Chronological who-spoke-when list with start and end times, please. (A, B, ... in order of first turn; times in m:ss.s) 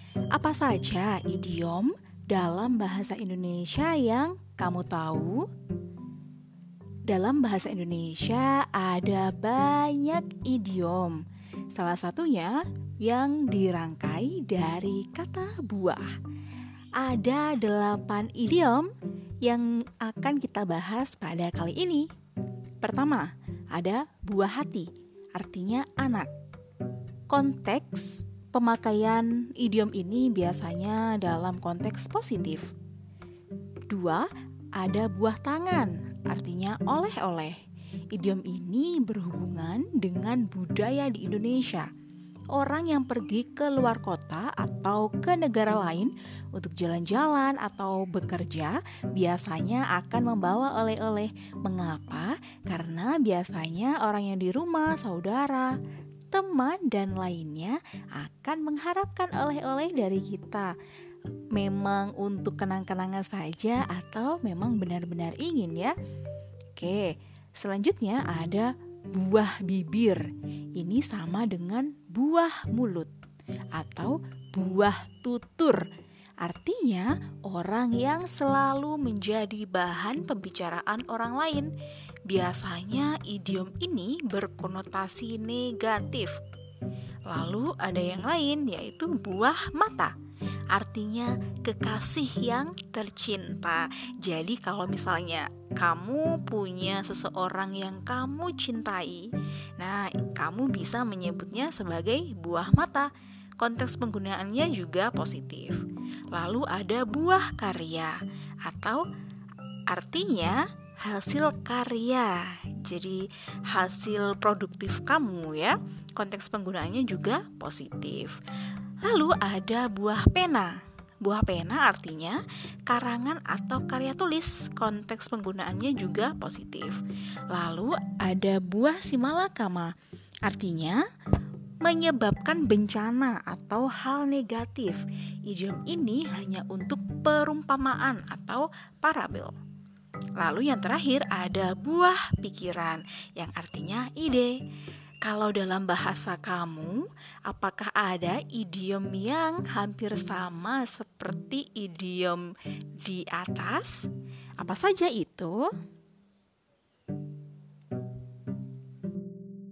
0:00.3-0:05.4 A
0:07.1-0:11.2 A
0:11.7-0:16.1 A
0:17.0-0:18.9 A
0:19.4-0:22.1 A
0:22.8-0:26.3 A
0:27.3-0:32.7 A
0:33.9-0:37.6 A
0:38.1-0:41.9 A
0:42.5-0:55.7 A
0:56.3-1:00.7 A
1:01.5-1:05.9 A
1:06.8-1:10.2 A
1:10.8-1:13.1 A
1:13.7-1:15.9 A
1:16.4-1:21.7 A
1:22.3-1:26.4 A
1:27.2-1:30.1 A
1:30.7-1:45.8 A
1:46.3-1:49.0 A
1:49.9-1:58.4 A
1:59.0-2:07.0 A
2:07.5-2:09.9 A
2:10.4-2:11.0 A
2:11.8-2:19.5 A
2:20.4-2:24.6 A
2:25.2-2:34.1 A
2:34.6-2:35.7 A